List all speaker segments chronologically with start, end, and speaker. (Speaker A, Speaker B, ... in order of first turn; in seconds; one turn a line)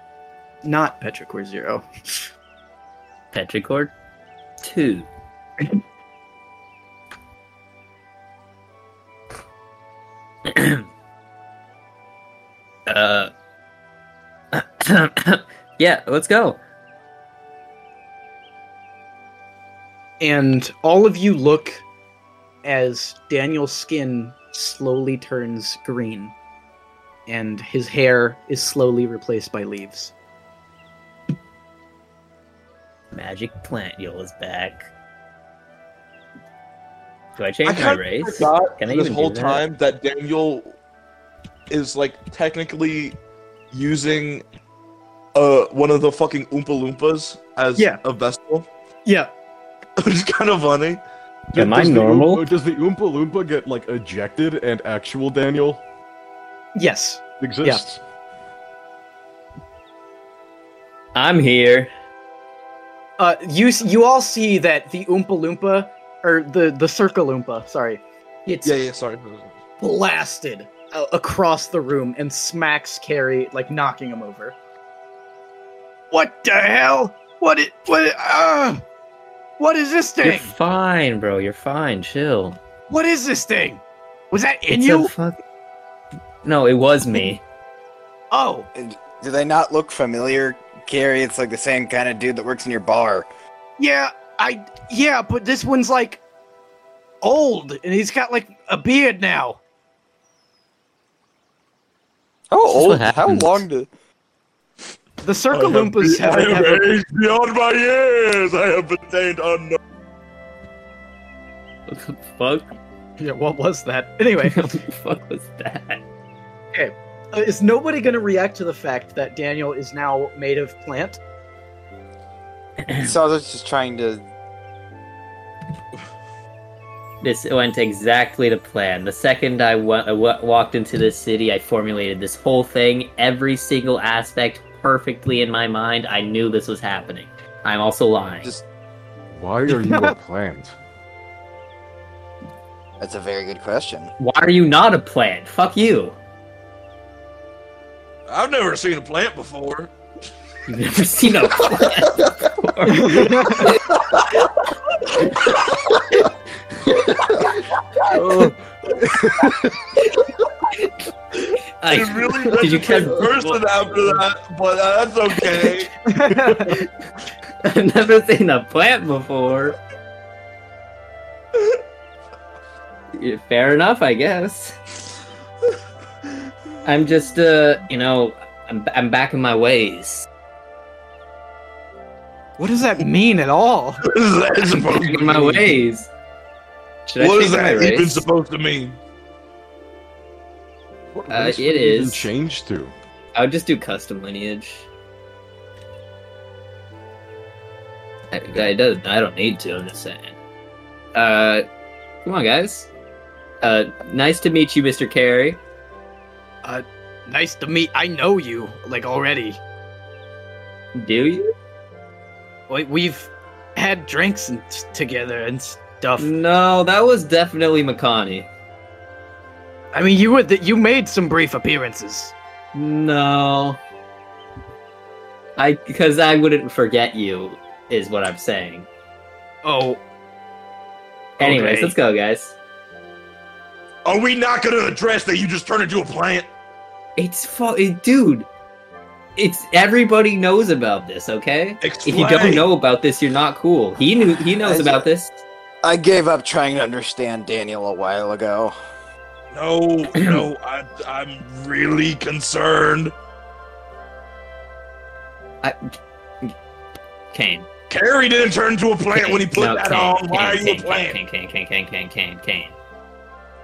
Speaker A: 0.6-1.8
Speaker B: 3.3-3.9
Speaker B: 4.6-5.1
Speaker B: 10.4-10.8
Speaker B: 12.9-13.3
Speaker B: 14.5-16.6
Speaker A: 20.2-21.8
Speaker A: 22.6-26.3
Speaker A: 27.3-30.1
Speaker B: 33.1-34.9
Speaker B: 37.4-39.6
Speaker C: 37.6-40.8
Speaker C: 41.7-43.2
Speaker C: 43.7-44.4
Speaker C: 45.3-48.7
Speaker A: 49.0-49.3
Speaker C: 50.0-51.0
Speaker D: 51.5-55.8
Speaker B: 51.5-52.5
Speaker A: 56.7-57.8
Speaker D: 57.4-58.0
Speaker B: 61.1-61.9
Speaker A: 63.2-68.9
Speaker C: 68.6-69.6
Speaker A: 69.8-74.5
Speaker A: 76.1-78.8
Speaker A: 79.6-80.5
Speaker B: 80.2-82.6
Speaker A: 82.9-85.1
Speaker B: 84.7-85.4
Speaker B: 86.4-87.4
Speaker A: 88.3-88.7
Speaker E: 88.7-93.3
Speaker A: 93.8-96.2
Speaker A: 97.2-99.6
Speaker E: 102.5-103.9
Speaker B: 102.6-103.6
Speaker A: 105.2-106.9
Speaker C: 105.5-109.8
Speaker B: 111.9-112.7
Speaker A: 113.2-114.8
Speaker B: 114.4-116.0
Speaker A: 116.7-121.2
Speaker B: 122.9-123.1
Speaker E: 123.0-124.2
Speaker B: 127.2-138.5
Speaker D: 139.3-140.7
Speaker A: 139.7-140.1
Speaker E: 143.0-144.1
Speaker B: 144.2-146.2
Speaker C: 148.3-149.9
Speaker B: 150.7-153.8
Speaker A: 152.9-153.8
Speaker B: 156.9-157.4
Speaker D: 158.1-159.7
Speaker B: 158.1-158.5
Speaker B: 161.8-164.2
Speaker C: 161.9-165.9
Speaker A: 166.1-166.9
Speaker D: 166.3-166.8
Speaker B: 167.6-169.8
Speaker B: 173.1-174.8
Speaker B: 176.8-180.3
Speaker A: 182.6-184.0
Speaker C: 184.0-185.6
Speaker B: 184.8-186.1
Speaker A: 185.4-185.7
Speaker B: 187.1-188.2
Speaker C: 187.2-189.0
Speaker D: 191.1-192.9
Speaker B: 191.3-192.3
Speaker B: 193.3-194.9
Speaker B: 198.3-200.3
Speaker B: 201.1-201.7
Speaker B: 202.2-202.9
Speaker B: 203.6-205.6
Speaker A: 206.6-209.6
Speaker B: 210.9-211.5
Speaker A: 212.7-216.3
Speaker B: 216.2-218.5
Speaker A: 219.9-222.3
Speaker B: 222.7-223.8
Speaker B: 225.6-228.9
Speaker A: 229.6-230.0
Speaker A: 231.4-231.9
Speaker B: 231.4-232.5
Speaker C: 234.0-236.5
Speaker B: 237.2-238.5
Speaker B: 239.3-245.4
Speaker C: 241.8-242.7
Speaker E: 244.6-245.1
Speaker E: 245.8-248.7
Speaker C: 249.5-253.1
Speaker B: 255.6-256.5
Speaker B: 257.3-257.7
Speaker C: 257.9-261.2
Speaker B: 259.1-262.7